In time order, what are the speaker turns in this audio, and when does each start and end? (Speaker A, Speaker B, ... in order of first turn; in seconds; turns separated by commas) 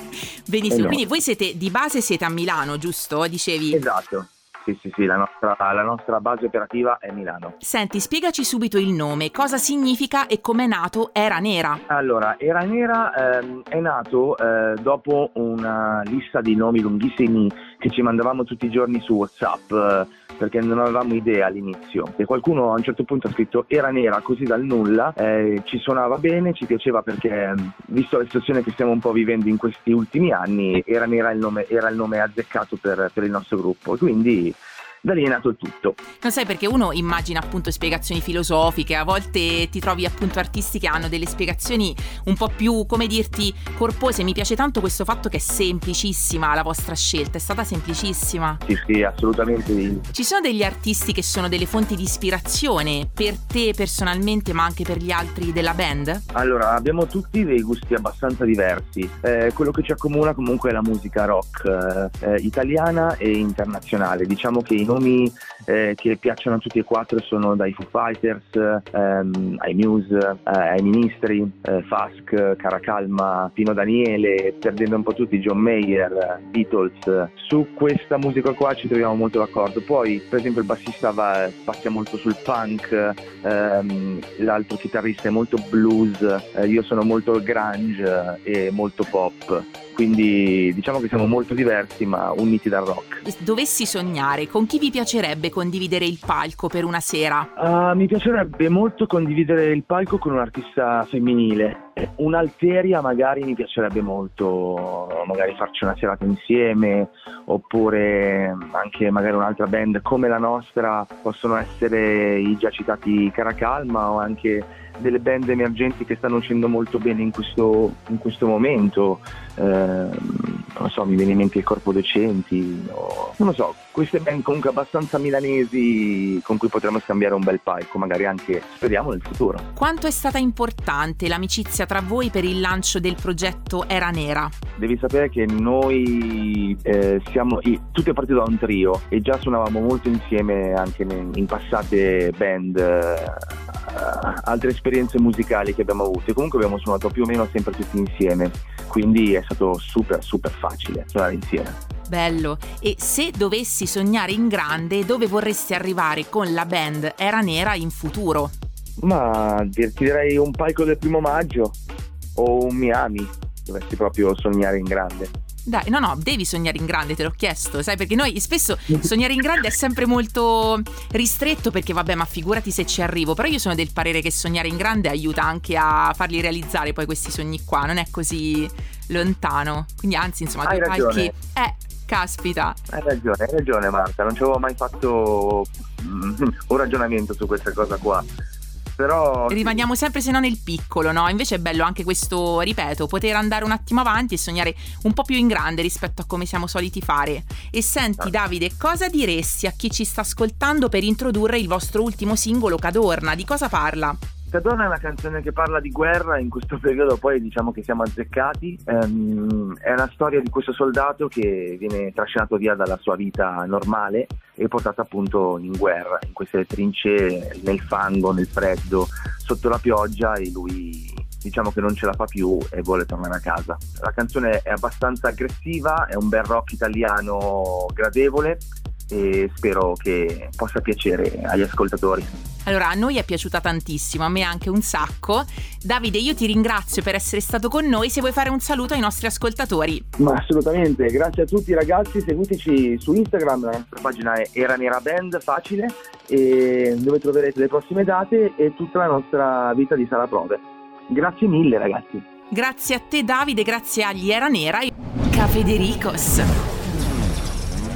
Speaker A: 0.5-3.8, Speaker B: 0.7-1.0, Speaker B: 3.7-7.6, Speaker A: 7.6-11.8, Speaker B: 11.9-36.0, Speaker A: 36.2-48.6, Speaker B: 48.7-50.1, Speaker A: 50.1-56.2, Speaker B: 56.3-93.2, Speaker A: 93.2-97.5, Speaker B: 97.6-129.7, Speaker A: 129.8-134.6, Speaker B: 134.8-151.8, Speaker A: 152.1-158.5, Speaker B: 159.0-161.8, Speaker B: 162.4-165.3, Speaker A: 165.7-182.8, Speaker B: 180.6-181.3, Speaker B: 182.9-188.3, Speaker B: 189.0-189.8, Speaker A: 189.5-204.2, Speaker B: 204.5-232.3, Speaker A: 232.7-240.1, Speaker B: 240.2-252.2, Speaker A: 252.5-256.6